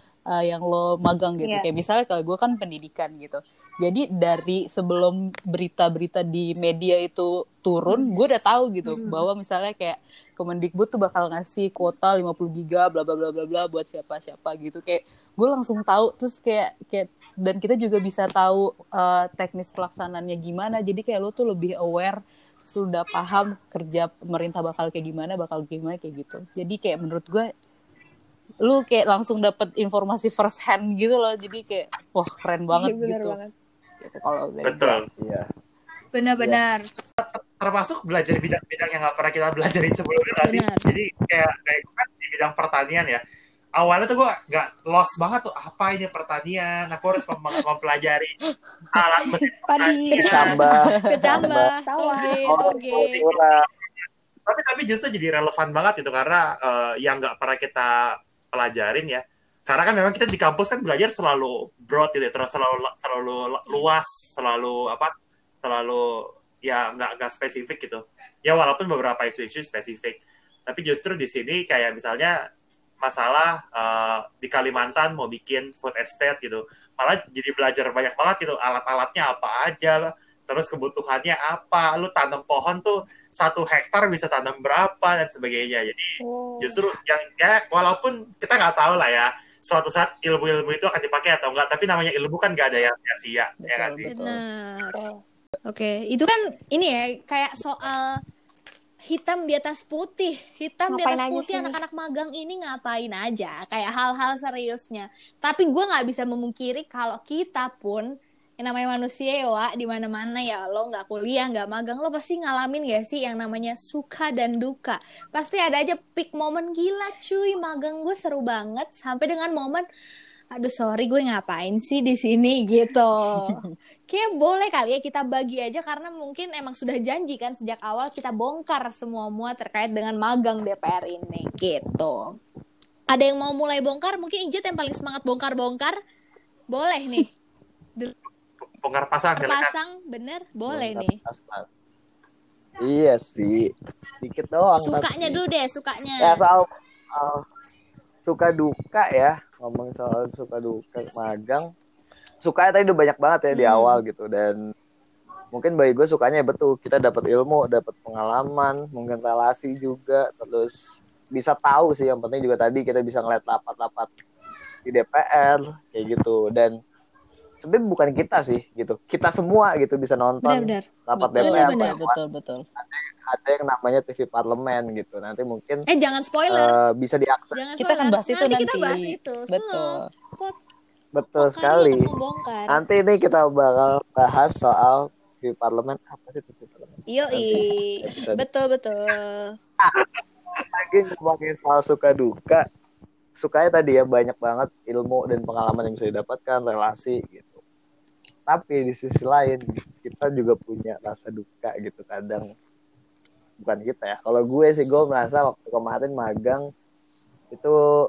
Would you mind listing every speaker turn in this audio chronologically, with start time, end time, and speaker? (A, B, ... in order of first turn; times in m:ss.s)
0:00.3-0:27.5 A
0:01.4-0:01.7 B
0:08.9-0:09.2 B
0:28.6-0:33.4 A
0:32.7-0:33.5 C
0:34.0-0:35.0 A
0:34.6-0:35.0 D
0:35.2-0:35.5 E
0:36.1-0:36.8 B
0:37.2-0:43.2 D
0:40.4-0:40.8 B
0:43.8-0:48.3 D
0:48.9-0:50.6 D
0:49.7-0:50.7 C
0:50.1-0:53.2 B
0:50.2-0:51.7 E
0:50.9-0:51.2 A
0:51.8-0:52.7 C
0:52.5-0:53.6 E
0:52.9-0:53.6 D
0:54.5-0:57.9 D
0:58.5-1:05.1 D
1:03.7-1:04.0 B
1:05.6-1:12.3 D
1:13.0-1:34.1 D
1:26.2-1:26.8 C
1:33.6-1:34.4 A
1:34.1-1:34.9 B
1:34.9-1:35.2 C
1:35.7-1:38.1 B
1:39.1-1:48.1 B
1:48.6-1:59.8 B
2:00.6-2:12.4 B
2:03.3-2:03.8 A
2:13.1-2:16.0 B
2:16.7-2:17.3 B
2:18.8-2:19.7 D
2:19.4-2:21.2 B
2:20.7-2:21.7 E
2:22.8-2:23.7 E
2:24.2-2:25.4 E
2:24.8-2:26.4 B
2:26.2-2:27.4 E
2:28.2-2:31.7 E
2:32.4-2:34.6 E
2:33.5-2:34.0 B
2:35.5-2:40.8 E
2:41.3-2:44.1 E
2:44.9-2:46.8 E
2:47.6-2:52.2 E
2:50.4-2:52.0 B
2:51.2-2:52.6 A
2:52.8-2:55.8 E
2:55.9-2:56.8 B
2:56.5-2:57.6 E
2:57.6-3:00.6 B
2:57.8-3:00.1 A
3:01.2-3:02.1 E
3:01.4-3:02.8 B
3:02.7-3:08.4 E
3:07.1-3:09.6 B
3:09.8-3:12.6 E
3:13.4-3:17.6 E
3:18.5-3:22.5 E
3:23.6-3:26.6 E
3:27.5-3:27.8 E